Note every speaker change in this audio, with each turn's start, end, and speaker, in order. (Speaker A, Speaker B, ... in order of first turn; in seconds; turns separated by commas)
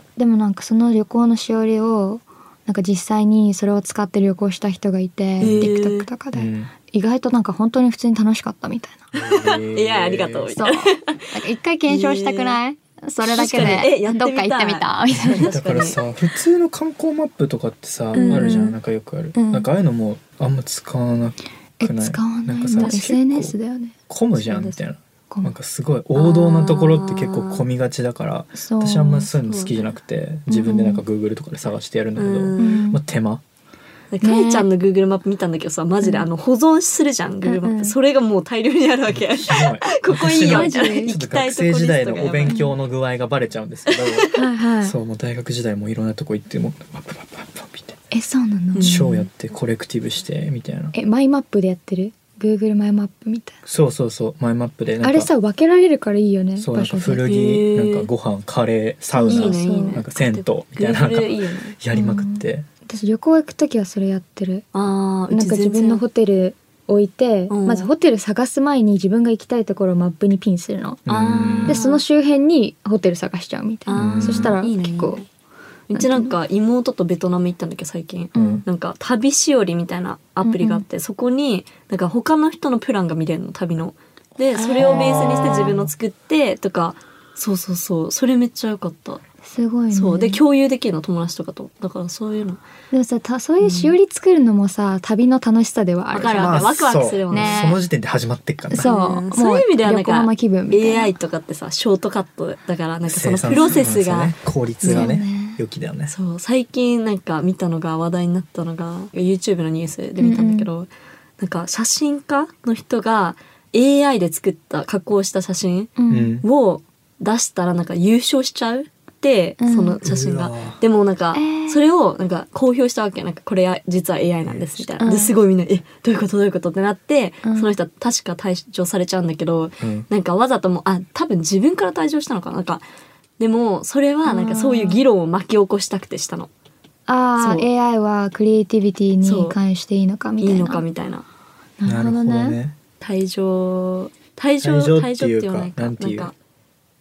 Speaker A: 0.2-9.0, Speaker B: 5.4-5.7, Speaker C: 5.4-6.1, Speaker B: 6.3-6.7, Speaker B: 9.1-10.6, Speaker C: 9.4-11.2, Speaker A: 10.6-15.5, Speaker C: 11.9-12.6, Speaker C: 13.2-16.0, Speaker B: 13.5-13.8, Speaker B: 15.1-23.6, Speaker C: 18.1-18.7, Speaker A: 18.1-18.8, Speaker A: 19.4-19.7, Speaker A: 21.8-24.6, Speaker B: 24.1-33.4, Speaker C: 24.4-24.8, Speaker C: 26.1-27.6, Speaker A: 28.6-29.3, Speaker C: 29.4-29.8, Speaker A: 30.5-31.0, Speaker C: 32.2-32.9, Speaker A: 32.6-33.0, Speaker C: 34.1-42.6, Speaker A: 34.2-34.7, Speaker A: 36.0-36.3, Speaker A: 37.5-38.0, Speaker B: 39.1-44.3, Speaker A: 40.5-41.2, Speaker A: 42.5-42.8, Speaker C: 43.9-44.3, Speaker A: 44.3-45.0, Speaker B: 44.8-48.0, Speaker A: 48.1-49.0, Speaker C: 48.7-49.3, Speaker B: 48.8-51.0, Speaker A: 50.9-53.6, Speaker B: 53.7-55.3, Speaker A: 55.0-57.3, Speaker B: 56.6-62.7, Speaker C: 57.2-58.1, Speaker A: 59.1-60.0, Speaker C: 59.3-61.8, Speaker A: 61.9-64.7, Speaker C: 64.7-66.0, Speaker A: 65.3-71.1, Speaker C: 67.5-67.9, Speaker B: 71.1-71.8, Speaker C: 71.1-72.0, Speaker A: 71.7-75.2, Speaker C: 73.9-75.2, Speaker B: 74.0-74.6, Speaker C: 75.9-89.2, Speaker A: 75.9-76.3, Speaker A: 78.3-78.7, Speaker B: 78.4-78.6, Speaker A: 80.4-80.8, Speaker A: 84.5-85.8, Speaker B: 84.8-85.8, Speaker A: 89.4-90.4, Speaker C: 89.9-92.6, Speaker A: 92.9-96.6, Speaker C: 93.6-94.0, Speaker C: 96.1-97.8, Speaker B: 96.4-98.9, Speaker A: 97.3-97.8, Speaker A: 98.7-101.1, Speaker C: 98.8-105.1, Speaker B: 103.1-106.1, Speaker A: 103.5-103.9, Speaker A: 104.9-105.6, Speaker C: 106.1-132.8, Speaker A: 110.2-110.7, Speaker A: 116.0-116.4, Speaker B: 116.1-116.5, Speaker A: 119.6-120.0, Speaker B: 120.0-120.8, Speaker A: 121.3-121.9, Speaker B: 124.5-124.8, Speaker A: 125.0-125.3, Speaker A: 127.4-127.7, Speaker B: 129.8-130.1, Speaker C: 133.4-136.5, Speaker A: 134.2-135.0, Speaker A: 137.1-140.8, Speaker C: 137.4-137.7, Speaker C: 139.2-139.6, Speaker C: 140.4-141.3, Speaker A: 141.8-142.6, Speaker B: 141.8-142.8, Speaker C: 143.0-146.3, Speaker B: 144.6-146.3